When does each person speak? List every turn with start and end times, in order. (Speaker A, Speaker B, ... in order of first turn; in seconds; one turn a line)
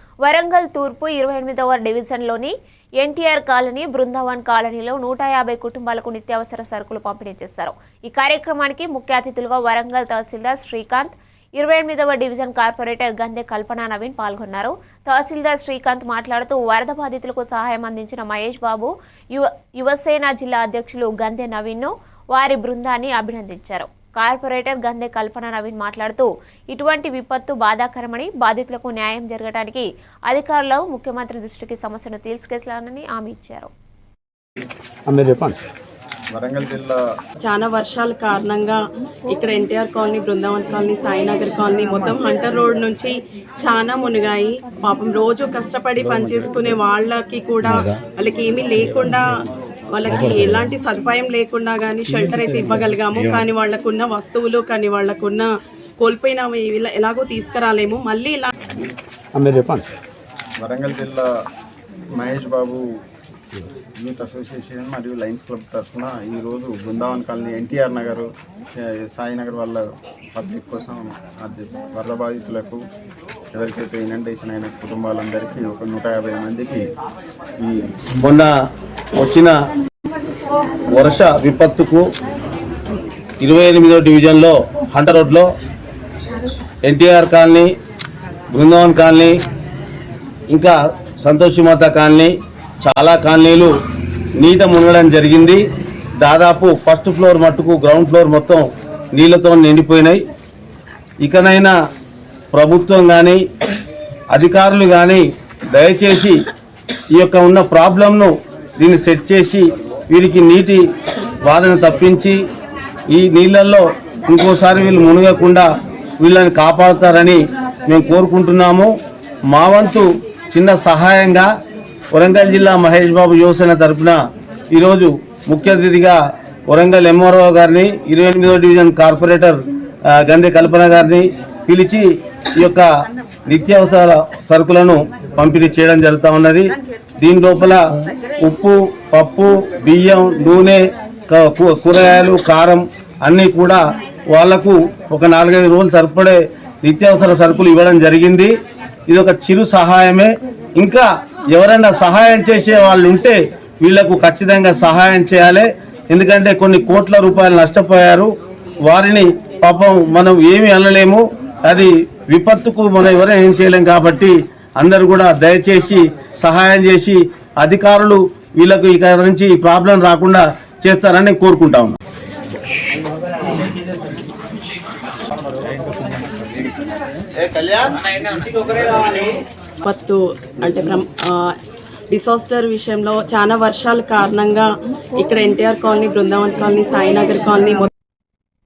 Speaker A: 0.2-33.7
Speaker B: 35.1-35.6
Speaker C: 36.3-37.0
Speaker D: 37.4-49.3
Speaker C: 46.2-46.7
Speaker D: 49.9-55.5
Speaker B: 50.1-50.7
Speaker B: 52.2-53.4
Speaker D: 56.0-58.5
Speaker B: 59.3-59.9
Speaker C: 60.6-61.3
Speaker C: 62.2-62.8
Speaker C: 64.0-72.8
Speaker C: 73.5-76.8
Speaker C: 77.6-78.0
Speaker E: 78.2-78.5
Speaker E: 79.2-79.5
Speaker E: 80.9-82.0
Speaker E: 83.4-85.5
Speaker E: 86.8-87.7
Speaker E: 88.5-89.4
Speaker E: 90.5-93.7
Speaker E: 94.4-95.6
Speaker E: 96.2-100.2
Speaker E: 101.2-101.7
Speaker E: 102.5-103.4
Speaker E: 104.3-106.4
Speaker E: 107.1-110.8
Speaker E: 111.4-112.4
Speaker E: 113.1-115.7
Speaker E: 116.2-118.9
Speaker E: 119.5-121.5
Speaker E: 122.1-124.2
Speaker E: 124.7-132.9
Speaker E: 133.5-136.7
Speaker E: 137.2-137.8
Speaker E: 138.4-148.5
Speaker E: 149.1-158.3
Speaker E: 158.9-172.0
Speaker E: 177.4-178.0
Speaker D: 179.8-181.6
Speaker D: 182.1-187.9